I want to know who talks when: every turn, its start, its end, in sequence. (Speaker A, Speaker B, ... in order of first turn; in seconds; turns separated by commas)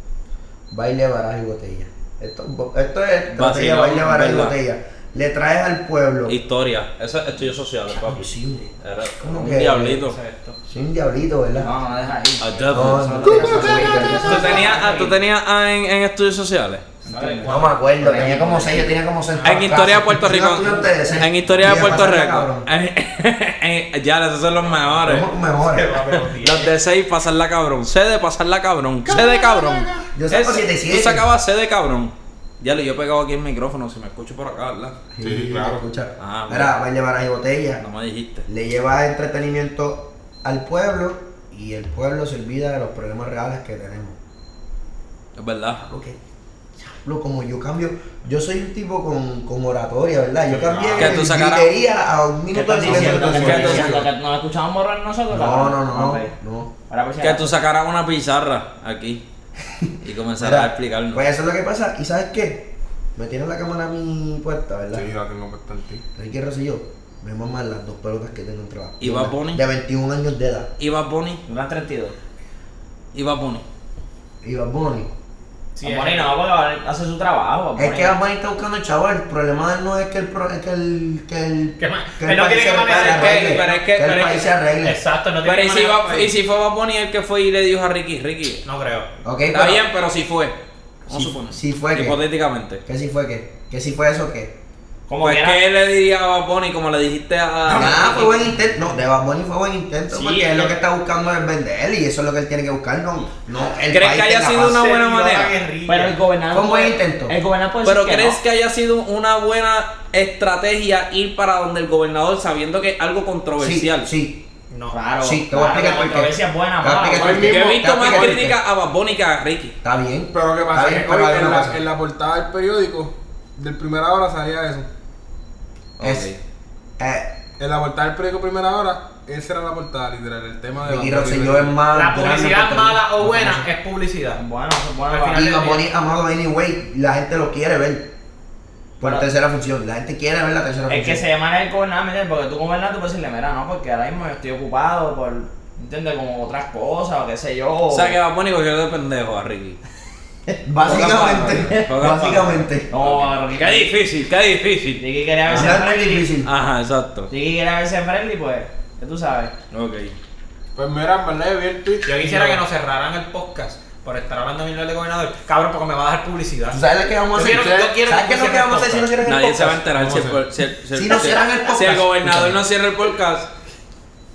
Speaker A: 0.7-6.4, Speaker B: 3.3-4.5, Speaker B: 6.3-10.2, Speaker A: 7.9-10.0, Speaker C: 10.0-10.6, Speaker A: 10.7-11.7, Speaker D: 11.6-15.1, Speaker B: 12.4-13.6, Speaker A: 12.7-14.6, Speaker E: 13.2-14.6, Speaker C: 14.2-15.1, Speaker B: 14.2-16.9, Speaker D: 17.0-19.0, Speaker C: 17.0-17.8, Speaker A: 17.4-22.7, Speaker C: 19.3-19.9, Speaker B: 19.4-25.3, Speaker C: 24.6-24.9, Speaker A: 25.0-25.9, Speaker C: 25.5-26.7, Speaker B: 26.3-35.0, Speaker E: 29.0-30.1, Speaker A: 30.1-31.3, Speaker A: 35.1-37.8, Speaker E: 35.2-35.8, Speaker B: 36.2-36.8, Speaker B: 37.8-38.5, Speaker A: 38.5-44.2, Speaker B: 45.4-45.8, Speaker A: 45.8-46.2, Speaker A: 46.8-53.9, Speaker E: 50.5-51.3, Speaker B: 50.9-51.7, Speaker D: 52.5-56.3, Speaker E: 52.8-54.1, Speaker B: 53.2-54.0, Speaker A: 55.3-56.7, Speaker D: 56.9-57.5, Speaker B: 57.2-59.2, Speaker A: 59.8-65.1, Speaker B: 60.0-61.2, Speaker E: 64.9-66.0, Speaker A: 66.2-70.7, Speaker B: 69.0-69.6, Speaker B: 70.8-71.4, Speaker D: 71.5-72.1, Speaker B: 73.1-73.6, Speaker A: 74.4-75.1, Speaker C: 75.7-76.3, Speaker D: 75.8-78.2, Speaker A: 77.8-85.0, Speaker C: 81.8-86.3, Speaker B: 82.9-84.4, Speaker B: 85.4-88.6, Speaker C: 88.6-89.1, Speaker A: 89.2-89.8, Speaker B: 89.5-92.8, Speaker A: 91.1-92.2, Speaker A: 92.8-94.5, Speaker D: 95.1-95.6, Speaker B: 95.2-98.4, Speaker A: 97.7-104.8, Speaker B: 100.2-100.7, Speaker B: 103.9-105.5, Speaker C: 104.6-106.2, Speaker D: 105.9-108.4, Speaker A: 106.5-107.3, Speaker B: 107.8-114.1, Speaker A: 113.6-114.4, Speaker C: 114.7-115.0, Speaker D: 114.9-117.5, Speaker A: 115.2-118.6, Speaker E: 117.1-118.4, Speaker B: 117.4-119.8, Speaker A: 119.8-121.8, Speaker E: 120.3-124.9, Speaker B: 126.0-126.4, Speaker A: 126.0-126.3, Speaker A: 127.0-127.3, Speaker E: 127.6-131.8, Speaker A: 130.8-133.6, Speaker C: 131.9-134.4, Speaker D: 134.3-135.5, Speaker C: 135.1-135.9, Speaker A: 135.3-138.1, Speaker A: 139.0-141.2, Speaker D: 140.9-148.2, Speaker B: 147.9-149.8, Speaker D: 150.5-151.9, Speaker A: 150.6-152.9, Speaker B: 150.8-155.8, Speaker D: 152.9-153.9, Speaker D: 155.0-156.3, Speaker A: 155.5-156.5, Speaker B: 156.4-157.3, Speaker D: 157.3-159.5, Speaker B: 159.7-160.1, Speaker E: 160.7-162.6, Speaker C: 162.0-169.1, Speaker A: 166.7-169.9, Speaker E: 167.5-167.9, Speaker B: 169.2-173.5, Speaker E: 169.9-170.4, Speaker A: 170.9-172.6